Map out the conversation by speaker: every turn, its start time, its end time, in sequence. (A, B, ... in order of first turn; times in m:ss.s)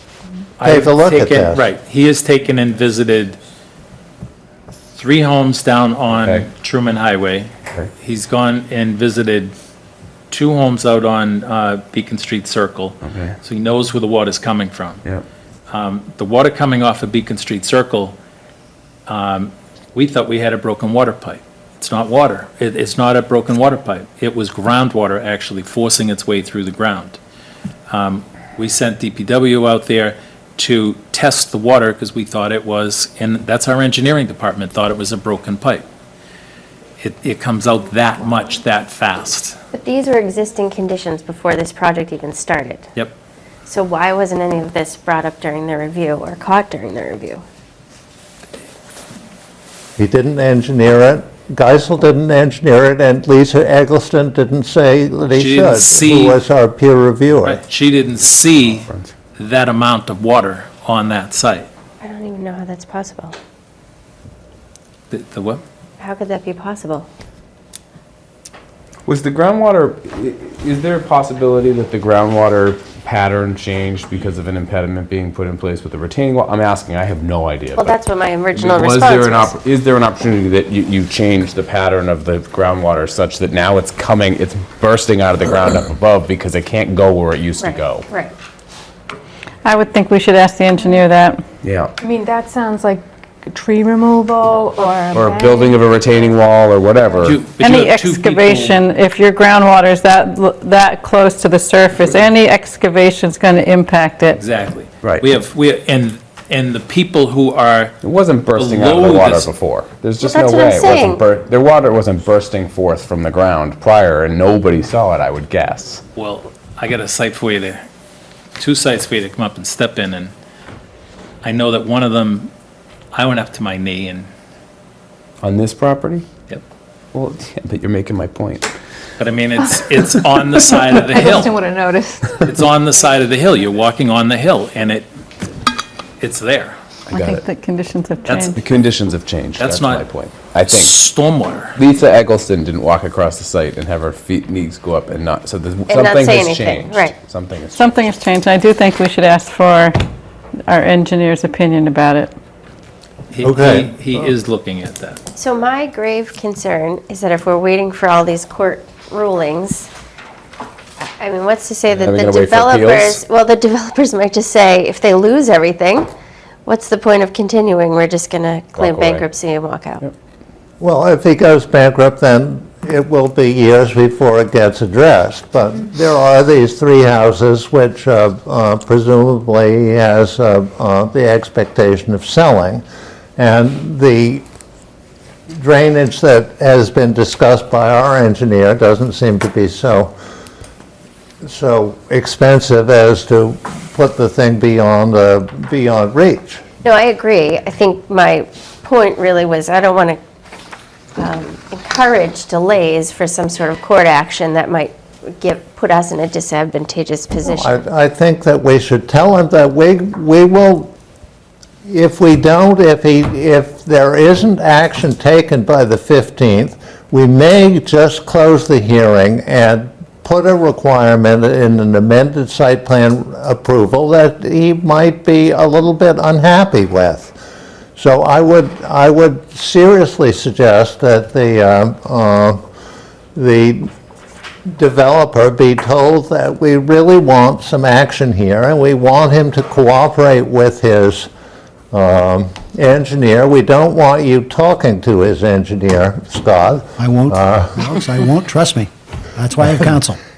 0:00.6-0:03.4 A
0:00.6-0:01.6 B
0:05.0-0:09.6 A
0:06.1-0:06.5 C
0:10.3-0:15.0 A
0:13.0-0:13.4 C
0:15.7-0:18.2 A
0:19.1-0:27.2 A
0:27.9-0:35.9 A
0:37.0-0:39.6 A
0:39.7-0:42.9 D
0:43.7-0:47.4 D
0:50.0-0:57.6 B
0:55.3-0:56.4 A
0:57.4-1:01.7 A
0:58.7-0:59.1 C
1:02.0-1:03.3 D
1:05.1-1:05.6 A
1:06.0-1:07.1 D
1:09.1-1:18.0 C
1:17.8-1:19.5 D
1:18.5-1:28.1 C
1:27.6-1:28.3 D
1:29.6-1:31.4 E
1:31.6-1:31.9 C
1:32.0-1:35.8 F
1:35.1-1:37.4 C
1:37.2-1:38.8 A
1:37.6-1:44.4 E
1:44.4-1:48.0 A
1:48.0-1:56.0 C
1:48.6-1:49.5 A
1:50.2-1:51.2 D
1:56.2-1:57.9 A
1:58.6-2:00.3 A
2:01.4-2:02.5 A
2:03.1-2:04.3 A
2:05.4-2:06.3 C
2:07.1-2:08.7 C
2:09.2-2:11.6 A
2:11.0-2:12.3 F
2:12.4-2:15.1 A
2:16.2-2:16.8 A
2:17.1-2:17.4 C
2:17.1-2:18.6 E
2:18.3-2:18.6 A
2:18.6-2:21.0 C
2:19.6-2:20.0 A
2:20.7-2:21.8 A
2:21.8-2:27.9 C
2:25.9-2:27.2 D
2:27.7-2:30.0 E
2:30.7-2:32.3 E
2:33.3-2:35.2 A
2:33.4-2:33.9 B
2:35.4-2:39.9 D
2:41.2-2:46.1 D
2:41.9-2:43.2 C
2:46.6-2:50.1 D
2:48.8-2:49.2 C
2:50.8-3:02.8 B
3:03.4-3:04.4 B
3:05.5-3:10.2 B
3:11.4-3:16.6 B
3:16.8-3:20.2 D
3:21.2-3:27.8 D
3:27.4-3:30.9 B
3:31.8-3:47.4 B
3:48.0-3:52.6 B
3:53.4-3:53.9 B
3:54.7-4:01.3 B
4:01.9-4:07.8 B
4:07.0-4:10.2 G